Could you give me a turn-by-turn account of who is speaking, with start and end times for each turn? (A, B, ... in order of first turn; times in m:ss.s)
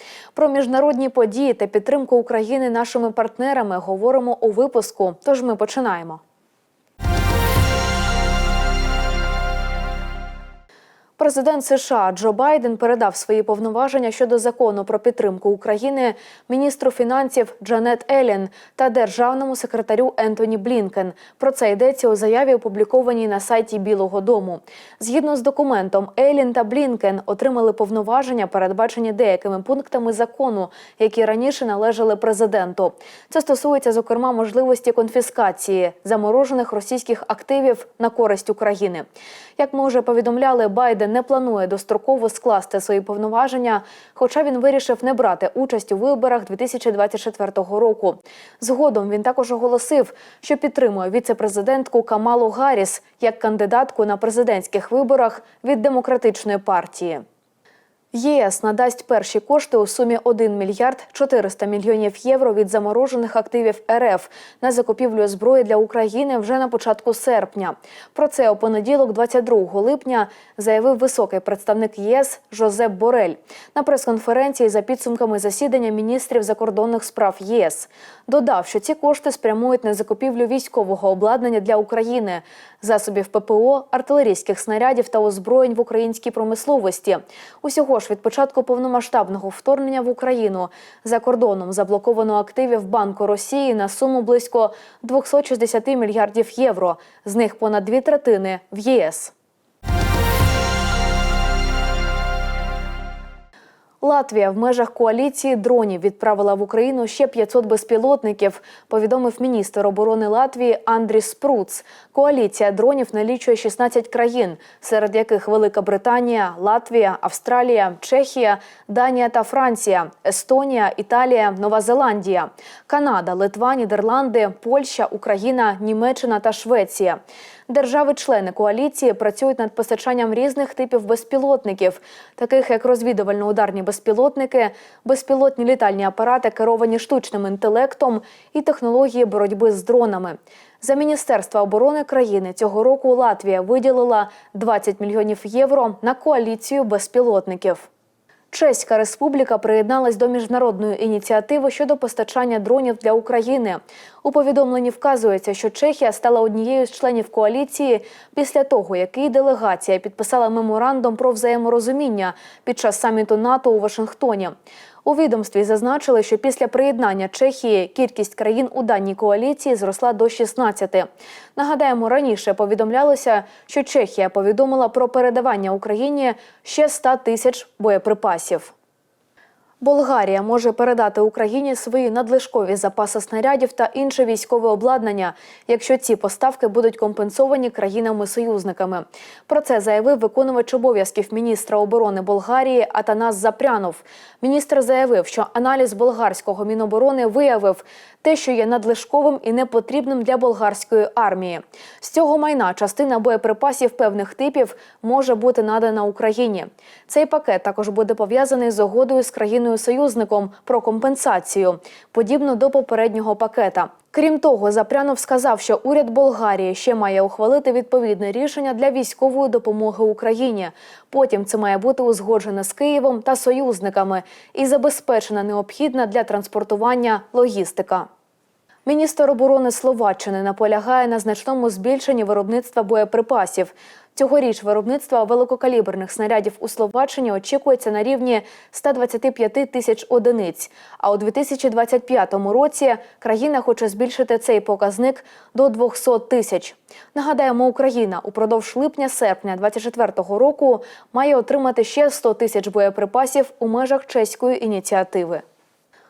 0:00.4-0:06.2 A
0:11.2-0:39.1 A
0:39.6-0:57.2 A
0:58.1-1:39.3 A
1:44.0-2:27.9 A
2:28.5-2:58.7 A
2:59.8-3:48.1 A
3:48.9-4:15.4 A